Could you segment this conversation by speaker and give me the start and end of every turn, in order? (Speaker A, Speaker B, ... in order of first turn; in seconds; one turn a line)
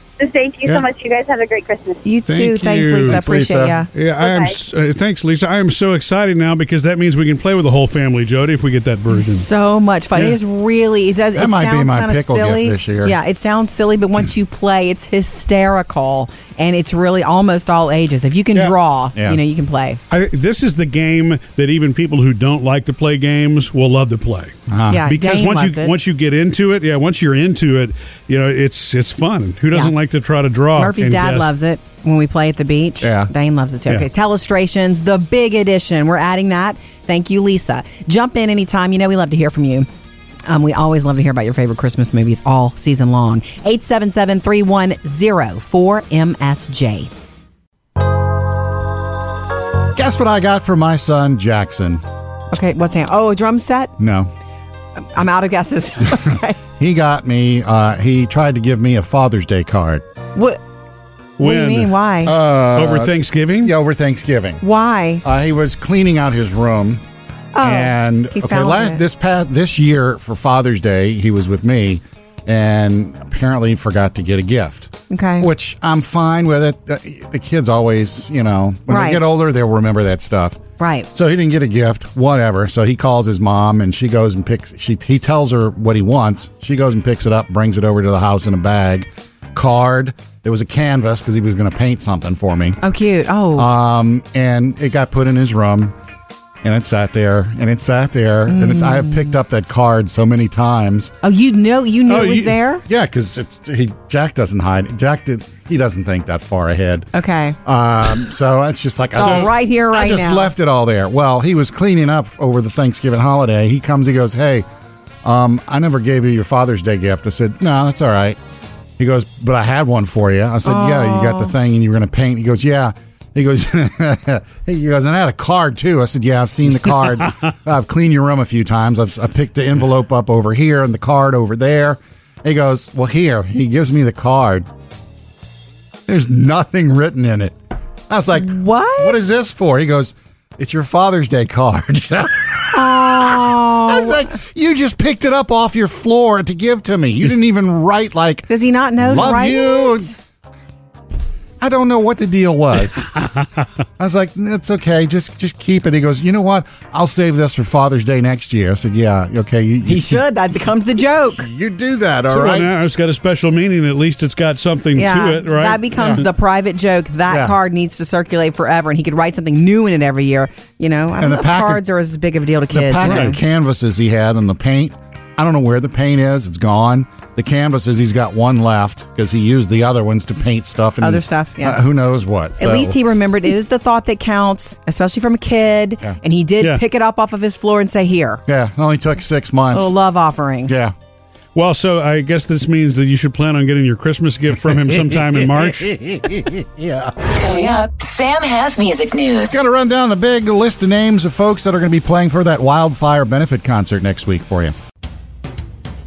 Speaker A: 0.2-2.0
Speaker B: 2.0-3.9
Speaker C: 2.3-3.2
Speaker D: 3.0-3.8
Speaker C: 3.9-9.5
Speaker A: 4.2-4.5
Speaker B: 9.1-20.0
Speaker D: 11.3-13.2
Speaker C: 20.1-31.5
Speaker D: 24.7-25.0
Speaker B: 24.9-25.9
Speaker B: 30.8-39.9
Speaker D: 33.0-33.3
Speaker B: 40.5-47.1
Speaker D: 49.9-52.0
Speaker B: 52.5-53.9
Speaker D: 54.0-54.3
Speaker B: 55.0-56.6
Speaker D: 56.8-60.0
Speaker B: 60.3-60.6
Speaker C: 61.4-61.9
Speaker B: 61.4-62.3
Speaker D: 62.2-64.6
Speaker C: 62.7-63.7
Speaker B: 64.6-65.2
Speaker D: 65.2-67.0
Speaker B: 67.5-69.0
Speaker D: 67.6-80.6
Speaker B: 75.1-75.5
Speaker B: 78.9-79.2
Speaker B: 80.8-81.1
Speaker D: 81.1-92.8
Speaker B: 92.8-93.7
Speaker D: 93.5-95.9
Speaker D: 96.6-101.1
Speaker B: 98.5-99.3
Speaker B: 101.2-102.8
Speaker C: 102.1-102.6
Speaker D: 102.9-107.1
Speaker B: 107.1-107.6
Speaker D: 107.6-114.6
Speaker B: 109.2-110.5
Speaker C: 109.2-109.5
Speaker D: 115.2-118.4
Speaker D: 119.0-134.7
Speaker B: 120.6-121.5
Speaker D: 136.1-137.6
Speaker D: 138.1-142.9
Speaker B: 138.3-139.2
Speaker B: 142.7-144.3
Speaker D: 143.8-148.5
Speaker B: 148.5-150.1
Speaker D: 149.0-150.1
Speaker D: 151.6-153.1
Speaker D: 154.0-160.2
Speaker B: 159.8-161.5
Speaker D: 161.4-162.7
Speaker C: 162.3-165.8
Speaker B: 164.9-173.4
Speaker D: 166.0-166.2
Speaker D: 167.3-167.5
Speaker D: 171.2-171.8
Speaker D: 172.7-183.0
Speaker C: 173.0-173.3
Speaker B: 181.0-181.8
Speaker B: 182.6-188.4
Speaker D: 188.5-189.9
Speaker B: 189.7-190.7
Speaker D: 190.7-190.9
Speaker C: 191.5-195.9
Speaker D: 195.1-197.1
Speaker E: 197.3-199.5
Speaker D: 199.5-204.7